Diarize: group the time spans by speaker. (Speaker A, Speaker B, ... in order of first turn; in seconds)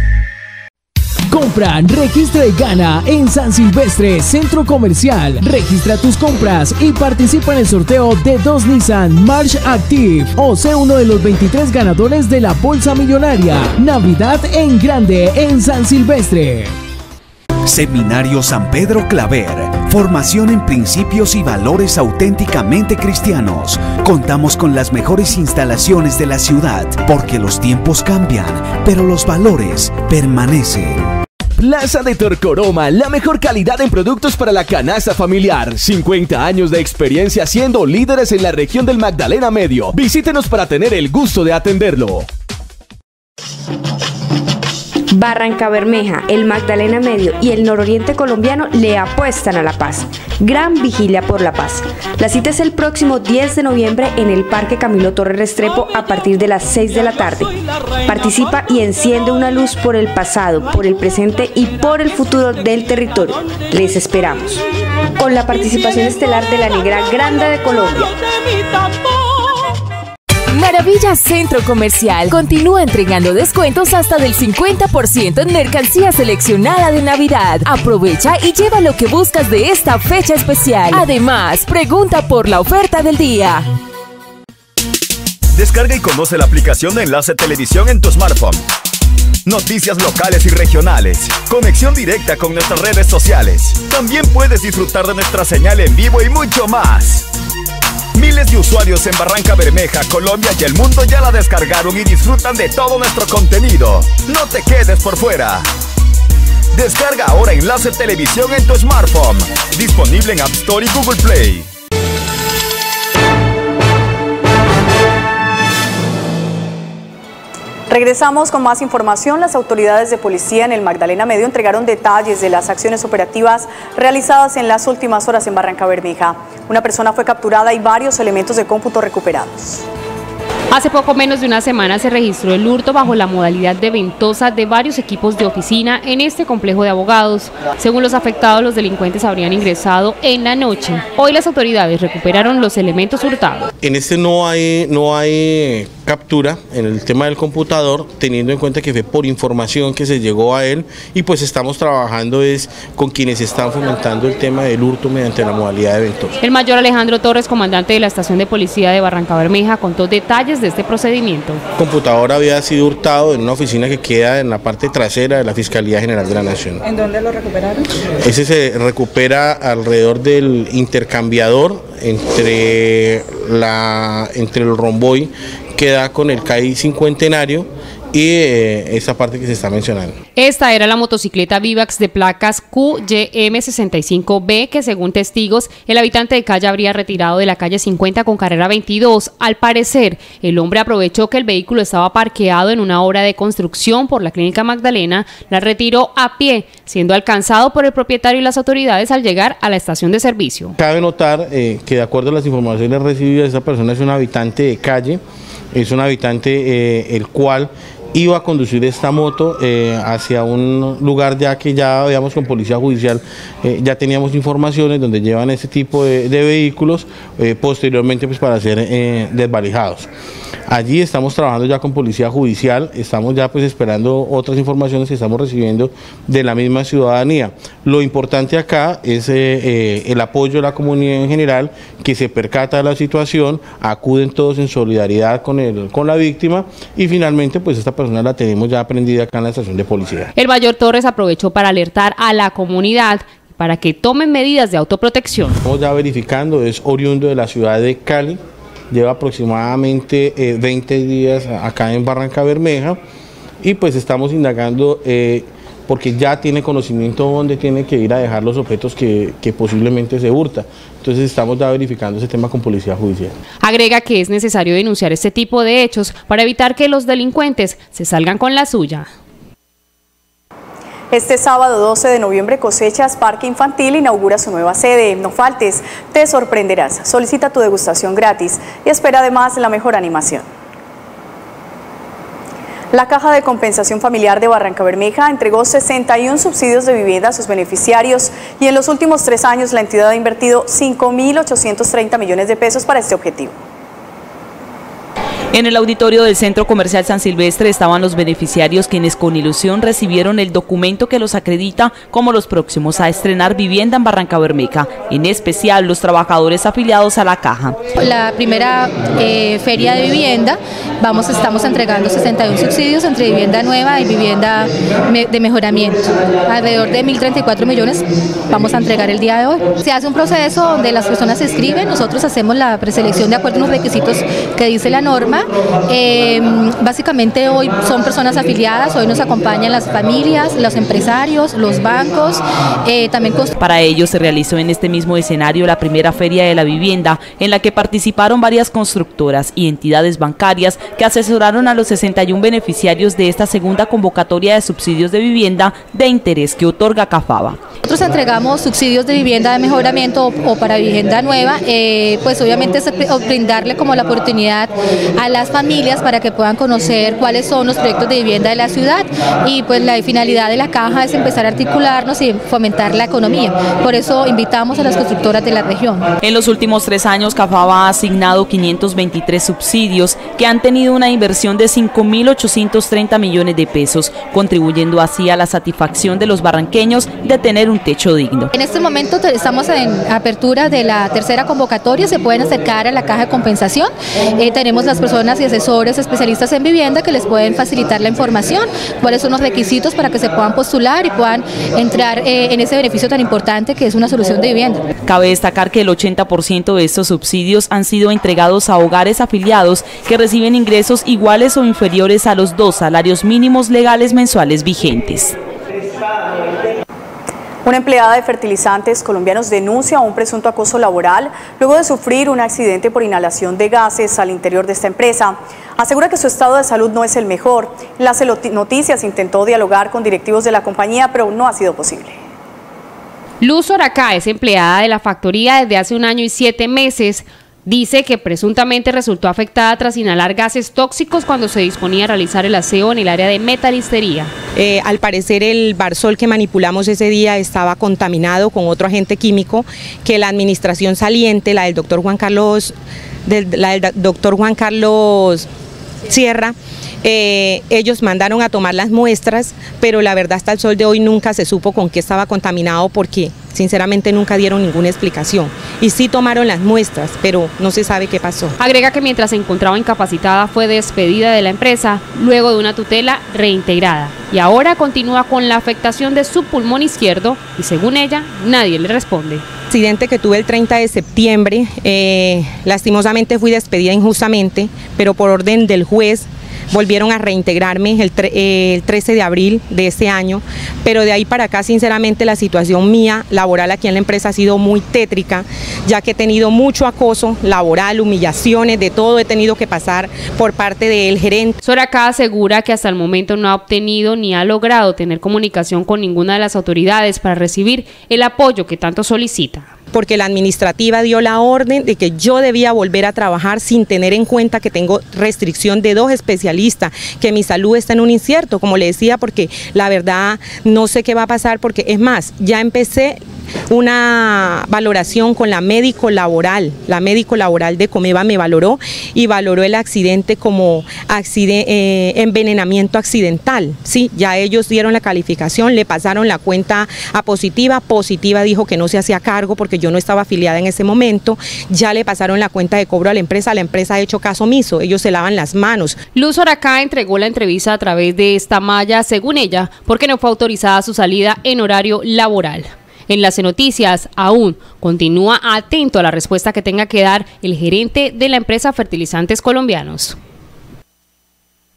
Speaker A: 1.3-16.7
Speaker B: 17.6-31.0
Speaker C: 31.6-42.3
Speaker D: 45.1-64.6, 65.2-68.1
Speaker E: 70.5-83.7
Speaker F: 85.6-88.4, 89.5-97.2, 98.2-103.4, 104.9-105.4, 106.9-111.5
Speaker G: 117.9-129.8, 271.1-280.5, 282.9-293.6, 407.6-422.2
Speaker H: 130.7-143.7, 156.4-161.6, 180.3-200.7, 240.3-245.6, 263.6-269.1, 423.4-434.3, 458.6-469.4, 491.6-499.7, 536.1-550.2
Speaker I: 143.8-156.3, 161.8-166.8, 168.2-180.2, 200.8-205.2, 205.7-220.1, 220.7-240.3, 245.6-248.4, 248.9-253.0, 253.6-263.3
Speaker J: 295.5-307.8, 333.6-347.6, 366.2-378.5, 395.0-405.4
Speaker K: 308.0-333.5, 347.8-366.1, 378.5-394.9
Speaker L: 434.6-442.7, 443.2-445.5, 446.1-458.6, 469.7-491.6, 499.9-536.0